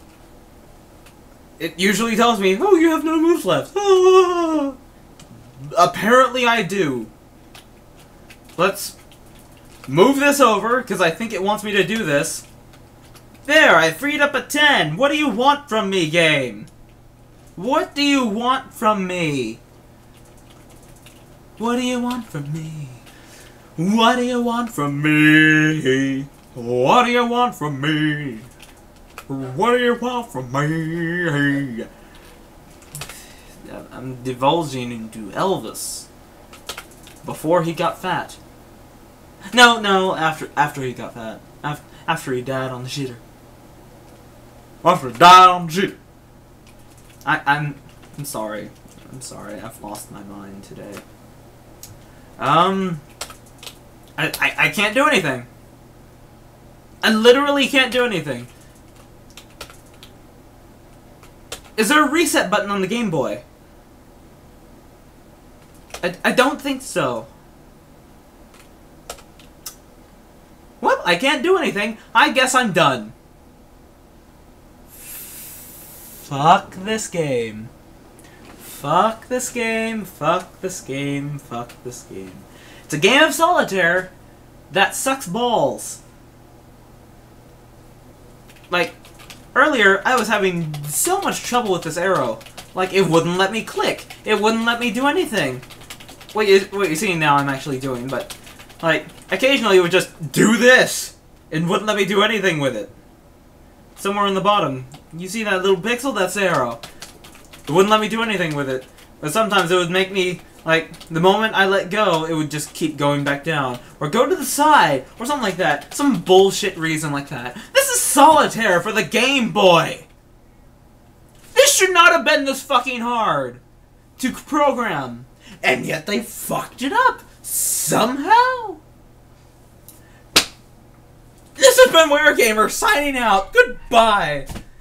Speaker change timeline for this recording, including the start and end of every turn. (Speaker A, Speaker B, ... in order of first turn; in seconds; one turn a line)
Speaker A: 1.6-4.8
Speaker A: 5.6-7.1
Speaker A: 8.6-8.9
Speaker A: 9.9-12.4
Speaker A: 13.4-16.7
Speaker A: 17.6-19.6
Speaker A: 21.6-23.0
Speaker A: 23.8-28.5
Speaker A: 29.3-31.9
Speaker A: 33.6-36.1
Speaker A: 37.2-38.4
Speaker A: 39.5-43.2
Speaker A: 44.8-46.0
Speaker A: 47.2-51.0
Speaker A: 52.4-53.0
Speaker A: 54.2-55.5
Speaker A: 57.0-58.5
Speaker A: 61.8-63.4
Speaker A: 66.0-67.3
Speaker A: 70.8-73.1
Speaker A: 75.0-75.3
Speaker A: 76.2-77.7
Speaker A: 78.6-84.1
Speaker A: 84.7-86.0
Speaker A: 88.7-89.0
Speaker A: 89.5-95.6
Speaker A: 96.3-102.9
Speaker A: 104.0-106.8
Speaker A: 107.7-120.1
Speaker A: 121.5-123.6
Speaker A: 124.2-128.8
Speaker A: 131.6-134.5